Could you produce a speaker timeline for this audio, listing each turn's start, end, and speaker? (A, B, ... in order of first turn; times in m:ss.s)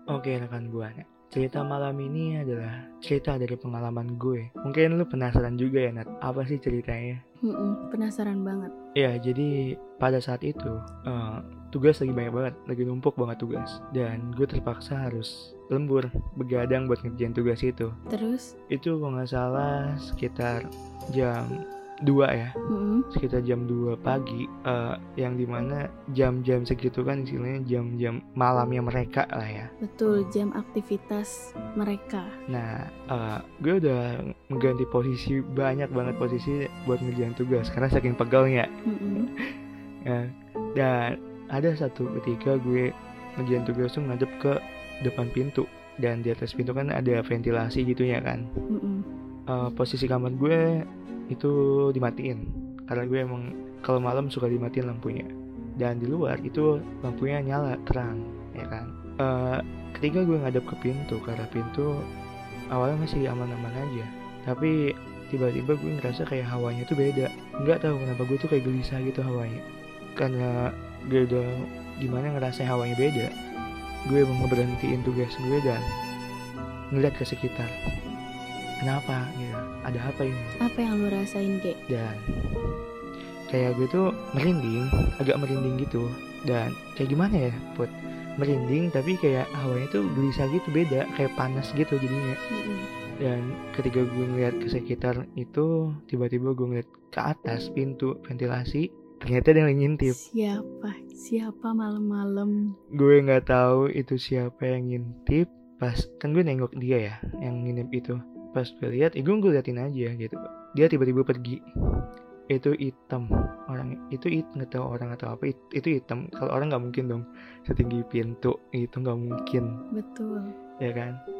0:00.1-0:07.2 A
0:07.4-0:08.7 B
0:09.0-0:17.9 A
0:18.1-0:18.5 B
0:18.7-0:20.6 A
0:21.1-0:21.5 A
0:22.0-0:22.5 A
0:22.7-0:23.0 B
0:23.1-0:29.7 A
0:29.8-0:32.3 B
0:32.5-0:38.7 A
0:38.9-0:39.3 B
0:40.8-0:42.8 A
0:43.4-0:48.4 A
0:48.7-0:49.0 B
0:49.5-0:50.6 A
0:51.3-0:55.3 A
0:55.8-1:01.9 A
1:02.7-1:04.7 A
1:05.3-1:09.6 A
1:10.2-1:11.5 A
1:12.0-1:13.3 A
1:14.1-1:15.8 A
1:16.9-1:17.7 A
1:18.8-1:20.5 A
1:20.6-1:21.8 B
1:21.9-1:22.2 A
1:23.5-1:32.4 A
1:32.5-1:32.9 B
1:33.2-1:40.2 A
1:40.1-1:42.6 B
1:43.0-1:51.6 A
1:52.5-1:59.7 A
1:59.9-2:00.5 B
2:00.8-2:01.2 A